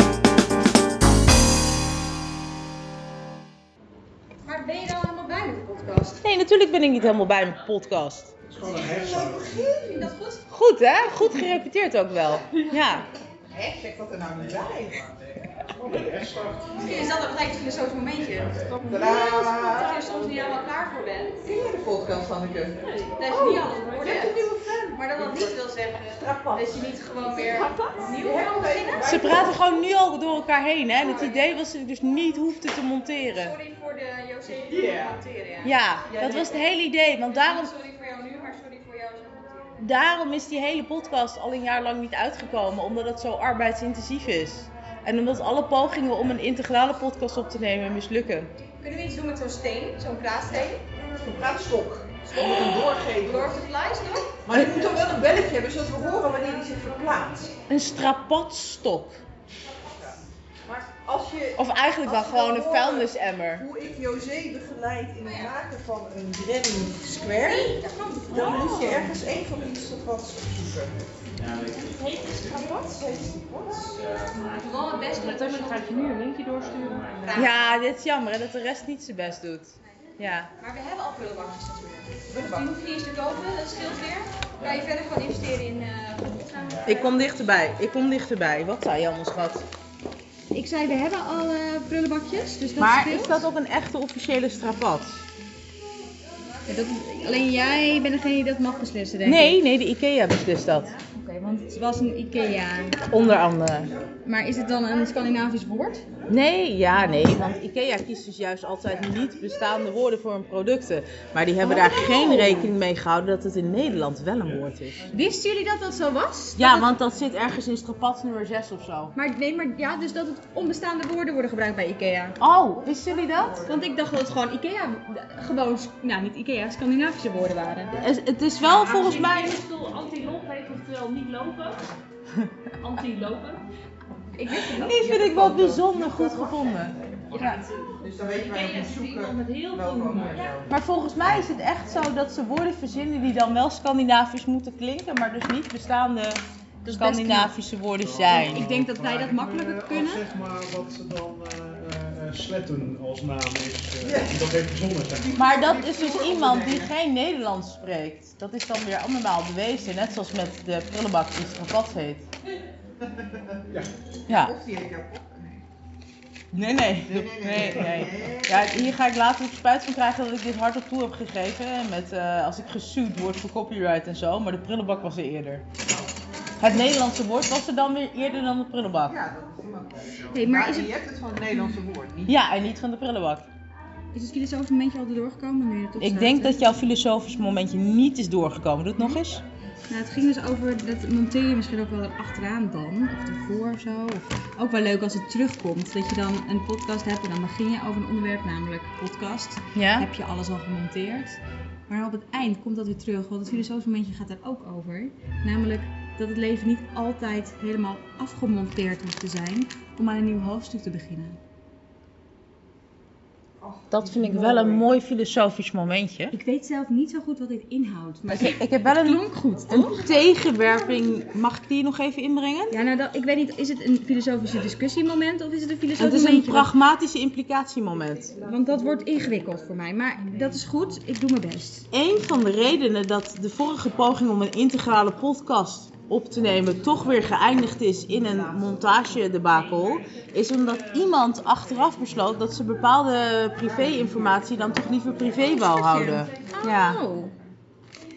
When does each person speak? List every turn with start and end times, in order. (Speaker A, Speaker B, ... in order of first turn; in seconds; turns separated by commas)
Speaker A: 4.5-6.2, Speaker B: 6.2-8.3, Speaker C: 8.5-9.6, Speaker A: 8.6-10.4, Speaker B: 10.5-13.1, Speaker D: 13.5-15.1, Speaker C: 15.8-16.9, Speaker A: 16.8-21.4, Speaker D: 18.9-19.7, Speaker D: 21.4-22.8, Speaker A: 23.2-29.4, Speaker D: 24.3-24.9, Speaker D: 28.5-29.2, Speaker B: 29.0-33.5, Speaker A: 33.3-35.7, Speaker B: 35.6-37.7, Speaker A: 37.2-39.8, Speaker B: 39.8-48.5, Speaker A: 48.8-50.8, Speaker D: 51.0-53.5, Speaker A: 52.3-54.4, Speaker D: 54.5-57.5, Speaker B: 57.7-59.2, Speaker D: 60.7-67.7, Speaker B: 61.6-63.7, Speaker A: 65.2-65.5, Speaker A: 67.3-69.1, Speaker D: 68.3-70.9, Speaker D: 72.5-74.0, Speaker A: 74.6-76.0, Speaker E: 75.5-77.2, Speaker A: 77.2-77.6, Speaker B: 77.3-80.5, Speaker A: 80.6-87.2, Speaker D: 82.3-82.6, Speaker B: 86.9-89.7, Speaker A: 90.5-93.5, Speaker B: 92.8-95.2, Speaker A: 96.7-99.6, Speaker B: 99.2-101.0, Speaker A: 101.1-103.0, Speaker B: 103.1-103.9, Speaker A: 104.2-106.0, Speaker B: 106.3-115.0, Speaker A: 111.6-112.7, Speaker A: 115.1-116.9, Speaker B: 116.6-119.1, Speaker A: 119.2-122.4, Speaker B: 122.4-123.7, Speaker A: 123.7-128.0, Speaker B: 128.0-129.6, Speaker E: 128.9-131.8, Speaker E: 132.8-133.6, Speaker A: 134.3-135.2, Speaker B: 134.6-137.6, Speaker D: 135.2-136.3, Speaker D: 136.8-137.2, Speaker D: 138.0-140.7, Speaker E: 138.8-140.4, Speaker B: 140.7-148.7, Speaker A: 146.8-147.6, Speaker C: 148.0-155.3, Speaker A: 148.5-150.2, Speaker D: 154.1-154.4, Speaker D: 155.2-156.9, Speaker B: 155.4-162.3, Speaker B: 164.3-164.6, Speaker D: 164.4-165.6, Speaker B: 166.5-175.7, Speaker D: 167.1-168.7, Speaker B: 176.6-179.2, Speaker D: 179.1-182.3, Speaker A: 180.3-181.0, Speaker B: 182.3-183.5, Speaker A: 184.1-186.6, Speaker B: 186.0-189.4, Speaker A: 189.9-211.4, Speaker B: 199.8-200.1, Speaker B: 213.9-216.3, Speaker A: 216.3-219.9, Speaker B: 218.3-222.8, Speaker A: 222.7-226.7, Speaker B: 226.0-228.3, Speaker A: 228.4-231.9, Speaker B: 231.9-247.0, Speaker A: 245.6-247.3